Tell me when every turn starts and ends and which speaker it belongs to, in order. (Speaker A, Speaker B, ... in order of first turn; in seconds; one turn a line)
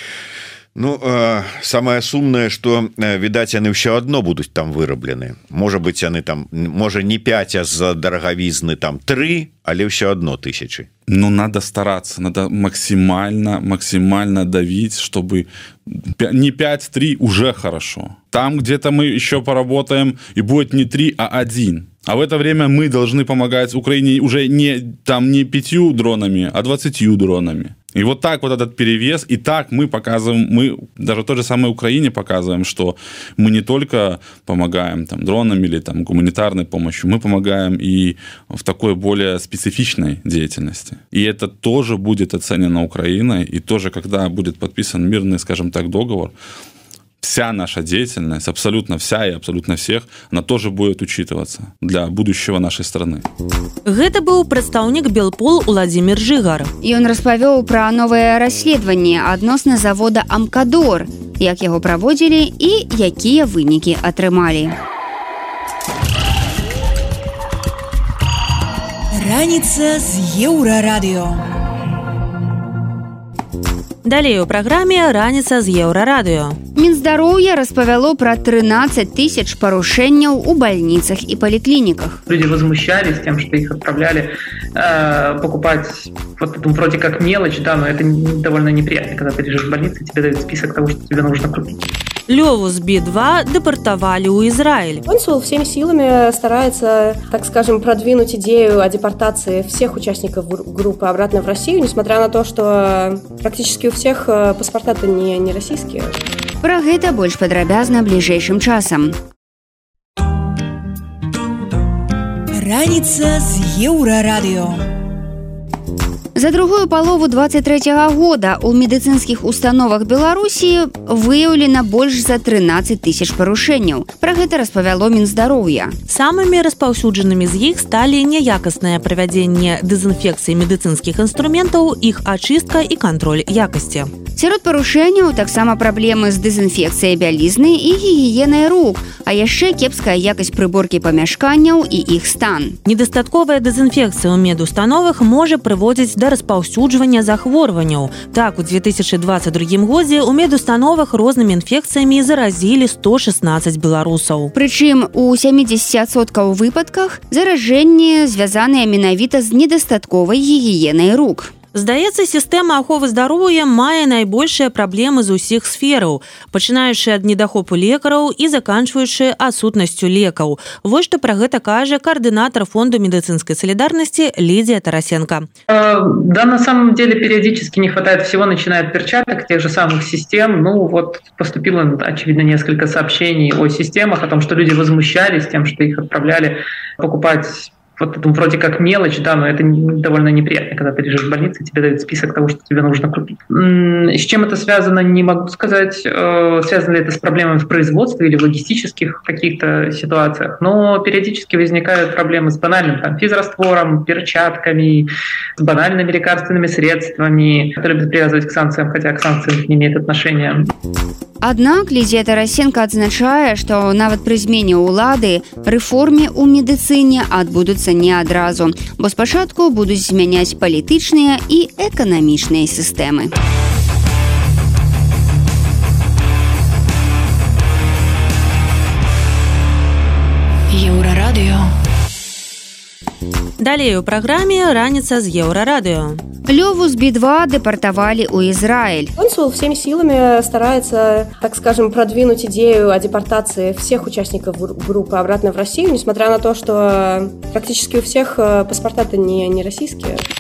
Speaker A: 0.8-10.9
Speaker B: 11.1-46.3
Speaker B: 47.2-53.2
Speaker C: 53.9-56.7
Speaker D: 56.8-64.8
Speaker E: 69.1-71.4
Speaker C: 74.0-76.6
Speaker D: 76.8-82.2
Speaker F: 82.3-91.8
Speaker C: 92.3-95.0
Speaker G: 95.1-106.2
Speaker D: 106.6-109.2
Speaker E: 112.5-114.8
Speaker D: 116.4-126.0
Speaker C: 126.1-134.1
Speaker D: 134.4-142.8
Speaker C: 142.8-154.5
Speaker D: 154.5-161.5
Speaker C: 161.7-175.5
Speaker F: 175.7-210.7
Speaker D: 211.4-223.3
Speaker E: 230.7-231.7
Speaker C: 233.6-236.2
Speaker D: 236.5-239.1
Speaker G: 239.2-250.2